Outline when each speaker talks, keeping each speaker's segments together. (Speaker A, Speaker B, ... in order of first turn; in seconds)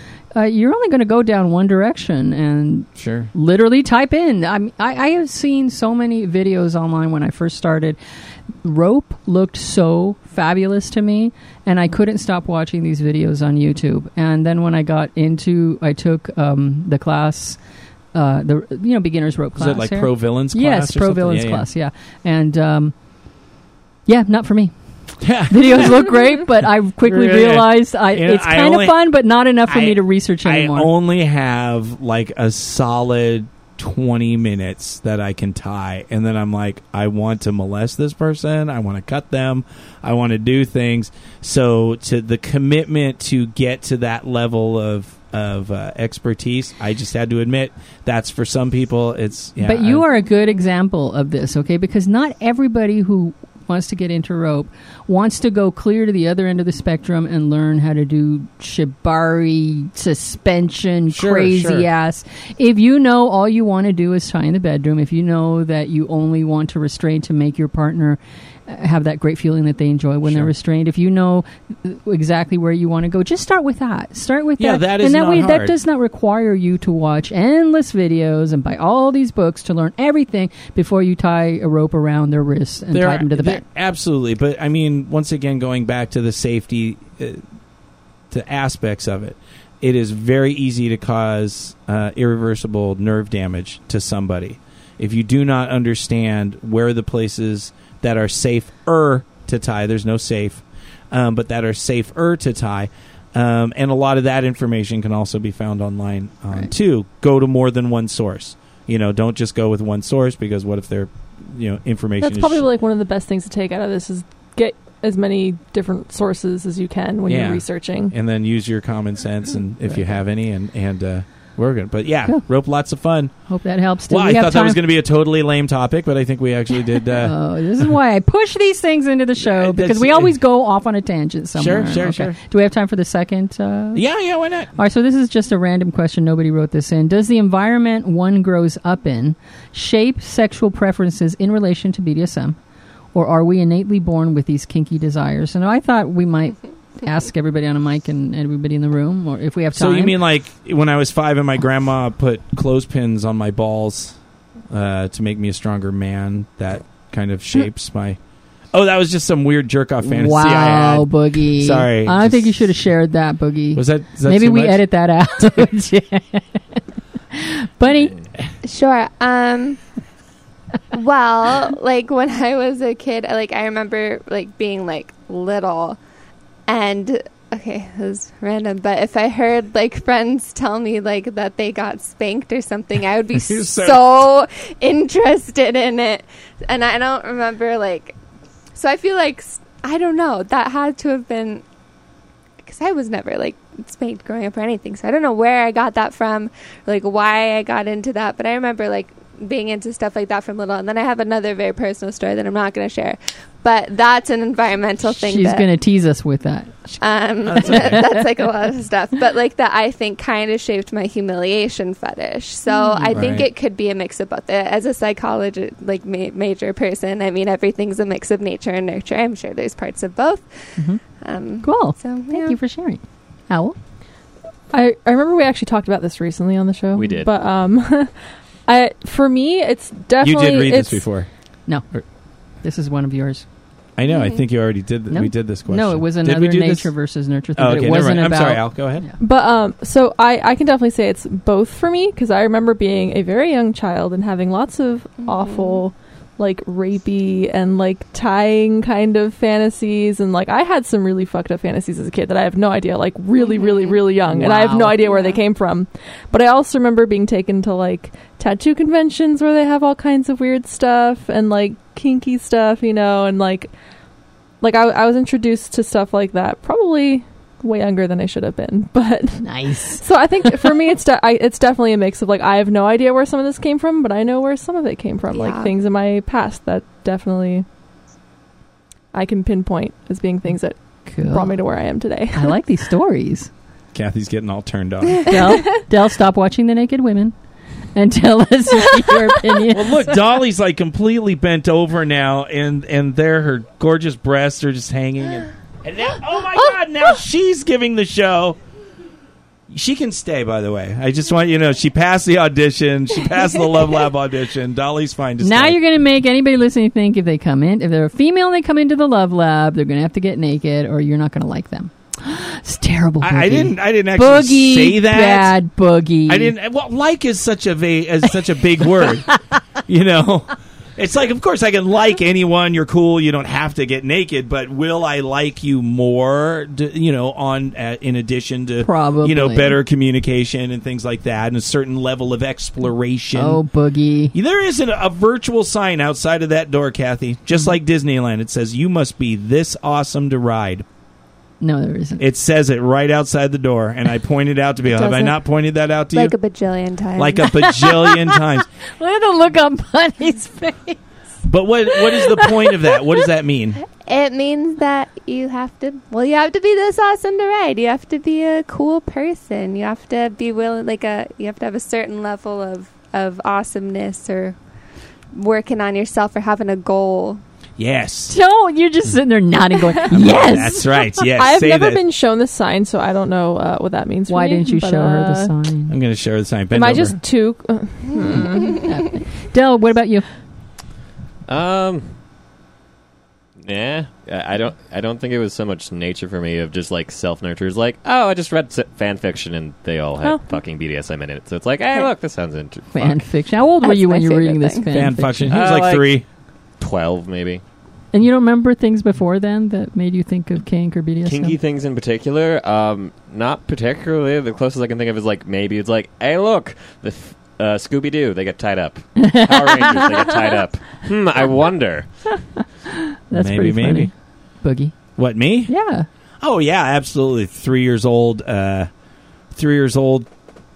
Speaker A: 0.3-8.0, 8.6-17.6, 18.1-22.9, 24.1-24.7, 25.4-30.9, 49.6-83.6, 123.5-124.8, 127.2-134.0, 134.8-142.6, 143.2-150.2, 160.0-166.8, 167.3-168.2, 205.1-206.7, 207.8-208.1, 212.7-213.3, 221.6-223.8, 232.6-233.4, 235.1-239.1, 254.2-255.1, 269.4-270.0, 281.1-281.6, 282.3-283.5, 285.3-287.3, 287.9-290.2, 305.4-316.5, 328.8-329.8, 333.4-334.4, 341.6-342.2, 347.5-348.4, 349.0-351.0, 351.9-353.0, 368.3-371.2, 374.3-375.9, 378.2-380.3, 392.9-395.6, 398.1-401.6, 409.2-410.3, 413.3-414.9, 415.7-416.1
Speaker B: 3.0-3.3, 19.6-21.6, 25.2-26.1, 27.1-29.1, 29.7-50.0, 61.1-61.9, 70.2-70.5, 74.6-75.8, 82.9-87.4, 88.3-112.7, 117.3-123.3, 124.1-127.3, 129.4-130.4, 131.6-132.4, 133.9-134.8, 149.8-154.2, 154.7-158.2, 158.7-162.7, 163.8-164.8, 183.3-184.3, 207.4-208.1, 213.1-213.5, 230.2-231.3, 234.0-236.9, 237.6-239.1, 283.9-285.4, 289.7-298.6, 299.7-305.8, 313.2-315.6, 316.3-319.3, 319.9-333.6, 334.3-340.9, 342.2-346.4, 347.2-348.6, 351.4-353.8, 367.8-368.4, 370.1-372.0, 375.9-377.2, 394.9-396.2, 413.3-414.1, 415.2-415.7, 416.4-418.9, 419.5-420.3
Speaker C: 112.2-118.1, 224.7-231.0, 239.2-263.7, 264.6-277.6, 279.1-282.6, 371.3-375.5, 376.7-378.8
Speaker D: 168.6-169.8, 170.9-176.0, 176.7-188.2, 188.8-191.6, 192.6-205.7, 207.0-220.5, 221.2-222.6, 234.1-234.4, 245.2-245.8, 253.4-254.0, 255.0-255.4, 275.3-275.7, 344.9-345.3, 346.1-347.6, 354.0-364.6, 365.3-367.4, 378.2-378.6, 393.8-394.9
Speaker E: 226.9-227.3, 381.5-382.1, 383.6-393.2, 395.5-396.2, 396.8-397.6, 401.3-412.1